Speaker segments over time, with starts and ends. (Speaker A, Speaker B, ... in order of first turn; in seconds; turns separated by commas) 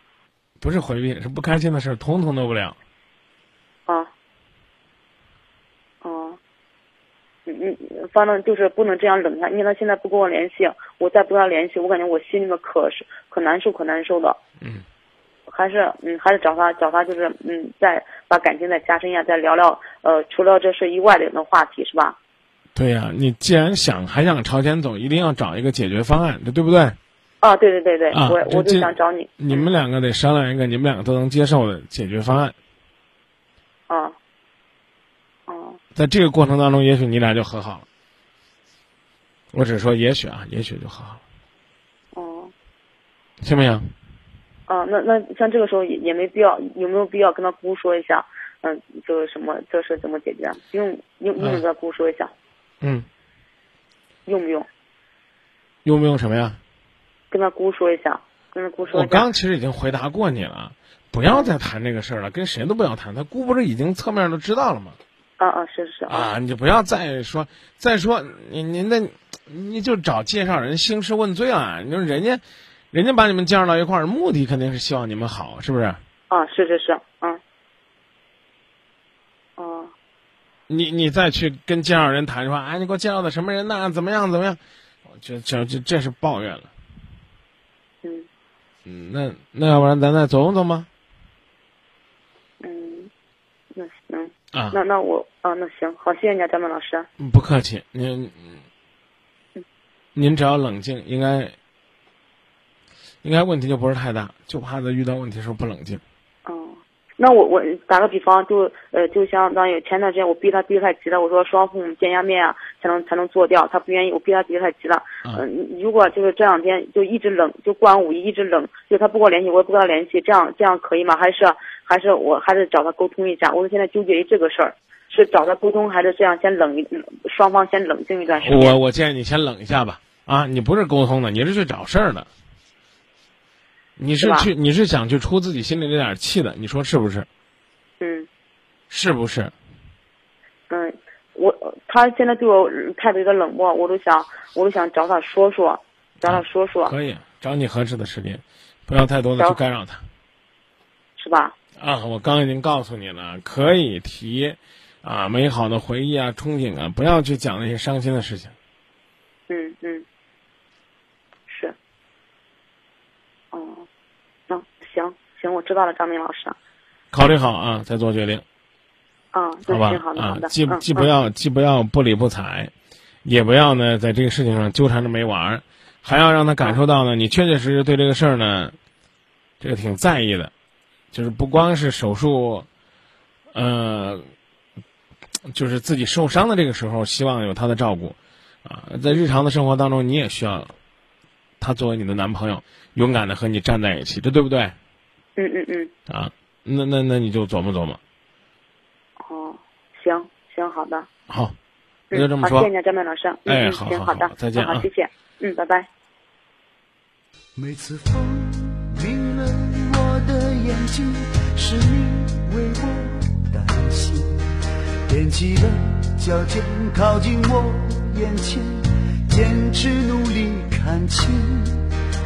Speaker A: 0.6-2.8, Speaker B: 6.0-6.4, Speaker B: 7.5-14.4, Speaker B: 15.5-22.2, Speaker A: 22.8-27.0, Speaker B: 27.4-29.7, Speaker A: 28.1-32.5, Speaker B: 33.9-34.2, Speaker B: 35.5-35.8, Speaker A: 36.0-37.9, Speaker A: 39.5-41.2, Speaker B: 42.1-42.5, Speaker A: 43.4-43.9, Speaker B: 44.7-52.3, Speaker A: 52.8-53.1, Speaker B: 54.3-54.7, Speaker A: 55.9-56.6, Speaker B: 57.3-59.2, Speaker A: 58.9-65.0, Speaker B: 65.4-66.3, Speaker A: 66.1-76.0, Speaker B: 76.3-77.4, Speaker B: 79.6-79.9, Speaker A: 80.7-84.6, Speaker A: 85.1-86.7, Speaker B: 88.0-88.3, Speaker A: 88.9-90.9, Speaker B: 92.6-93.1, Speaker B: 93.7-97.1, Speaker A: 94.5-94.8, Speaker A: 97.2-98.6, Speaker A: 100.2-101.6, Speaker A: 103.2-106.0, Speaker B: 106.5-128.8, Speaker A: 128.4-132.3, Speaker A: 134.0-137.3, Speaker B: 134.2-134.5, Speaker B: 138.0-138.3, Speaker A: 138.9-139.5, Speaker B: 140.7-146.9, Speaker A: 146.3-150.0, Speaker B: 151.2-151.6, Speaker A: 151.8-158.5, Speaker B: 159.5-160.1, Speaker B: 161.5-161.8, Speaker B: 163.5-163.9, Speaker B: 164.5-166.6, Speaker A: 167.1-168.4, Speaker B: 169.3-171.1, Speaker A: 169.7-172.7, Speaker A: 173.2-178.8, Speaker A: 179.6-180.5, Speaker A: 181.1-182.7, Speaker A: 183.5-184.3, Speaker A: 185.5-190.7, Speaker A: 191.6-194.8, Speaker B: 195.4-195.9, Speaker A: 196.1-198.0, Speaker B: 199.3-201.1, Speaker A: 201.3-201.6, Speaker A: 202.1-202.7, Speaker B: 202.1-205.9, Speaker A: 203.5-204.8, Speaker C: 207.6-214.4, Speaker C: 215.1-221.9